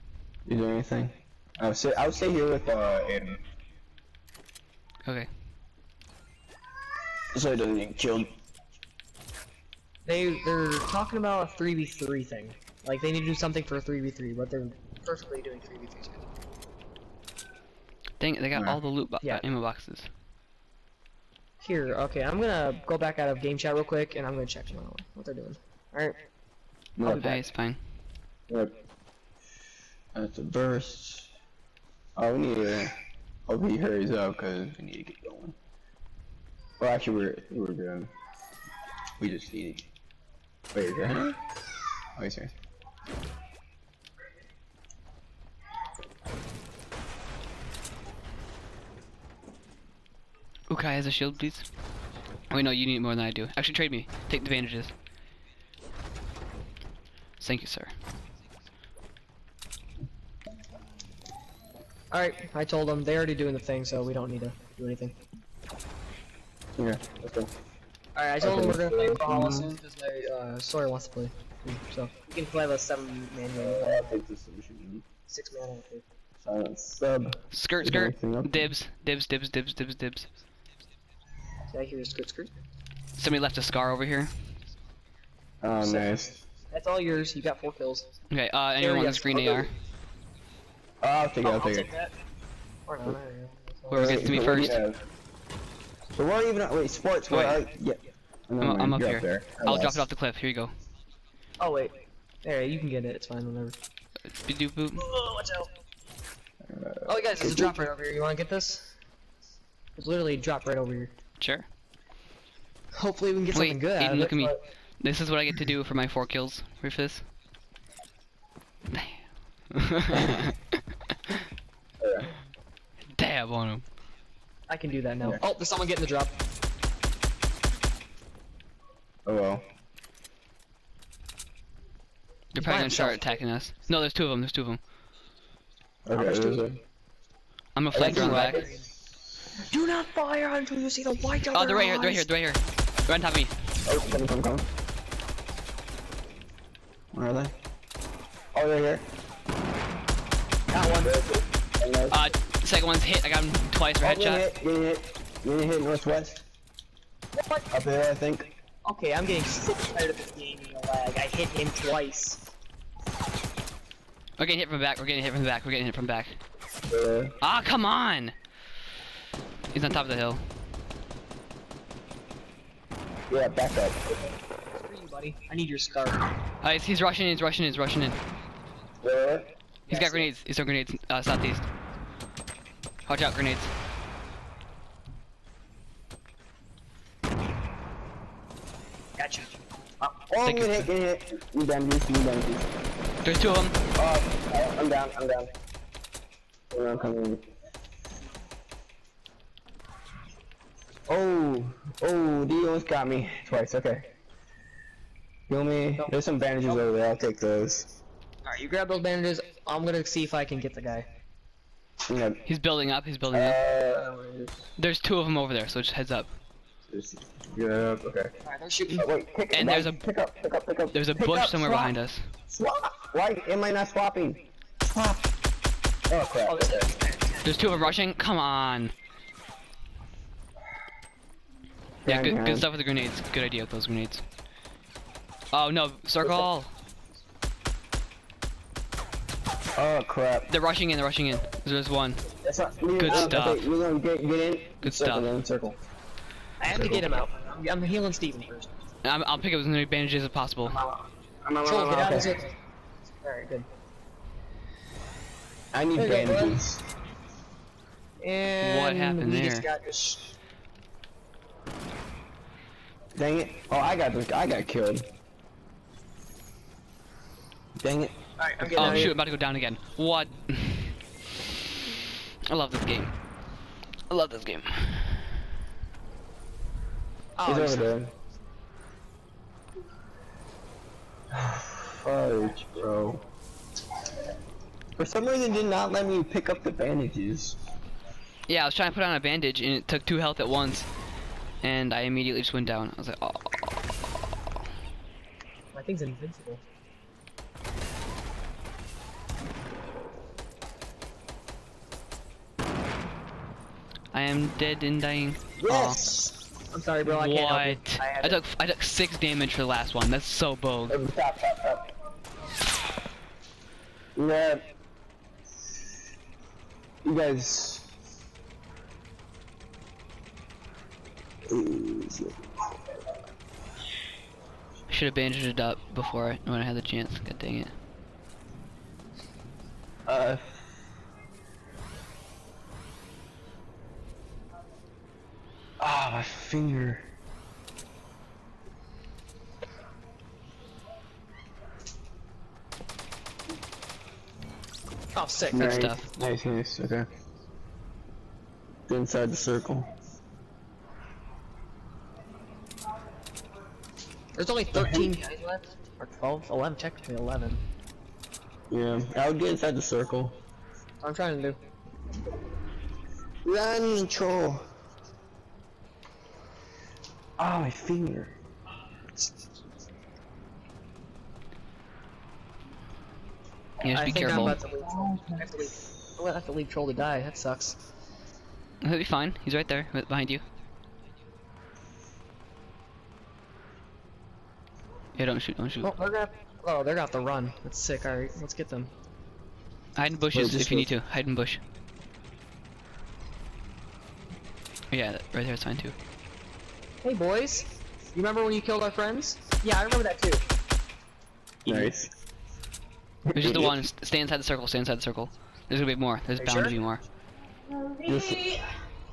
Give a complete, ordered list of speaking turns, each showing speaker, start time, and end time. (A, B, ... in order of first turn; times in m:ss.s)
0:00.4-0:03.4 A
0:07.3-0:08.3 A
0:10.0-0:16.3 B
0:18.2-0:20.1 C
0:18.5-0:18.8 A
0:21.6-0:26.2 B
0:27.0-0:27.3 A
0:27.0-0:27.4 B
0:27.2-0:27.8 C
0:30.1-0:31.3 A
0:32.2-0:32.9 A
0:33.5-0:35.6 A
0:36.8-0:38.1 A
0:39.2-0:39.9 A
0:40.7-0:41.4 A
0:42.2-0:42.5 A
0:50.7-0:51.6 C
0:52.5-0:54.9 C
0:57.4-0:57.9 C
1:02.1-1:05.1 B
1:06.8-1:07.5 A
1:08.2-1:14.2 B
1:08.4-1:09.7 A
1:13.6-1:15.0 A
1:15.3-1:16.0 B
1:16.4-1:18.6 A
1:17.5-1:20.3 C
1:21.7-1:22.5 B
1:23.2-1:24.3 C
1:25.6-1:26.4 A
1:25.8-1:26.1 B
1:26.7-1:28.1 B
1:28.3-1:29.7 C
1:28.8-1:29.7 B
1:31.0-1:31.9 A
1:31.4-1:32.1 B
1:32.9-1:34.2 B
1:33.9-1:34.8 C
1:33.9-1:35.0 A
1:36.2-1:40.0 A
1:37.3-1:37.6 C
1:38.6-1:40.7 C
1:41.6-1:43.7 B
1:44.3-1:45.0 C
1:45.0-1:45.7 B
1:46.6-1:47.8 A
1:47.1-1:48.9 B
1:50.0-1:51.1 B
1:51.4-1:51.6 C
1:53.0-1:54.6 B
1:53.5-1:57.2 C
1:58.9-2:01.4 C
2:02.0-2:02.3 A
2:03.1-2:03.9 C
2:04.7-2:06.3 B
2:09.2-2:09.6 A
2:12.5-2:14.8 C
2:12.6-2:13.4 B
2:16.0-2:16.8 A
2:16.1-2:16.6 B
2:17.8-2:18.6 C
2:17.9-2:18.7 A
2:18.0-2:18.7 B
2:19.6-2:22.3 B
2:21.5-2:23.5 C
2:23.8-2:24.7 A
2:27.1-2:27.5 A
2:28.5-2:29.0 A
2:30.7-2:31.2 B
2:31.0-2:32.2 A
2:32.1-2:34.4 C
2:34.0-2:36.4 A
2:37.3-2:37.7 B
2:37.7-2:38.5 A
2:38.8-2:42.5 B
2:44.4-2:46.4 C
2:46.9-2:47.3 A
2:47.4-2:48.4 C
2:49.7-2:50.4 C
2:53.3-2:54.2 A
2:54.8-2:56.2 B
2:56.6-2:58.2 C
2:59.0-2:59.5 A
2:59.9-3:00.3 B
2:59.9-3:01.7 C
3:03.0-3:03.7 C
3:09.2-3:09.5 B
3:10.0-3:12.7 A
3:10.4-3:10.9 C
3:13.2-3:13.8 C
3:14.0-3:15.5 A
3:16.7-3:17.4 A
3:21.1-3:24.1 A
3:25.5-3:27.9 A
3:26.0-3:26.8 B
3:28.4-3:31.0 B
3:32.0-3:32.4 A
3:32.5-3:33.6 C
3:33.3-3:34.7 A
3:34.8-3:36.3 C
3:36.9-3:38.3 A
3:38.4-3:39.1 B
3:38.9-3:41.9 A
3:39.5-3:40.0 C
3:40.9-3:42.3 C
3:42.5-3:45.3 A
3:46.1-3:46.9 A
3:46.4-3:47.9 B
3:47.4-3:48.9 C
3:52.0-3:52.7 A
3:52.0-3:54.2 C
3:55.5-3:56.7 C
3:59.8-4:00.5 A
4:00.5-4:02.2 C
4:02.4-4:05.8 A
4:03.0-4:03.6 C
4:03.1-4:03.4 B
4:04.8-4:05.3 C
4:06.6-4:08.7 B
4:06.7-4:07.1 A
4:09.0-4:10.8 C
4:10.6-4:11.1 B
4:11.4-4:12.3 A
4:11.6-4:12.6 B
4:13.2-4:13.7 B
4:15.7-4:16.8 A
4:16.0-4:16.6 B
4:18.2-4:20.3 B
4:18.6-4:19.7 C
4:23.1-4:25.0 A
4:27.8-4:29.1 A
4:28.4-4:29.1 B
4:28.8-4:31.0 C
4:32.4-4:33.1 C
4:34.1-4:35.4 C
4:37.4-4:37.9 B
4:37.4-4:38.1 A
4:41.3-4:43.2 A
4:45.0-4:47.6 A
4:48.5-4:50.9 C
4:51.6-4:53.8 C
4:55.7-4:56.6 B
5:04.1-5:06.0 C
5:05.6-5:06.4 A
5:05.7-5:06.2 B
5:06.7-5:08.4 B
5:07.0-5:11.0 C
5:10.9-5:11.9 A
5:14.2-5:14.6 A
5:17.0-5:17.9 A
5:21.4-5:22.5 A
5:24.9-5:27.7 C
5:30.0-5:30.6 A
5:35.8-5:37.0 A
5:45.1-5:45.9 B
5:45.5-5:47.1 A
5:45.6-5:46.0 C
5:48.9-5:49.9 A
5:54.4-5:57.6 B
5:54.7-5:55.1 A
5:58.7-6:00.4 A
6:01.0-6:01.6 B
6:03.4-6:04.6 A
6:07.4-6:08.4 A
6:13.8-6:14.6 C
6:13.8-6:17.8 B
6:14.4-6:15.7 A
6:18.8-6:20.4 C
6:25.1-6:25.9 C
6:25.8-6:28.9 B
6:30.0-6:31.6 C
6:30.3-6:30.9 A
6:34.9-6:35.9 C
6:37.0-6:40.4 B
6:41.6-6:41.9 B
6:41.6-6:42.1 A
6:43.2-6:43.8 A
6:43.3-6:47.0 C
6:46.4-6:46.7 B
6:48.0-6:48.6 A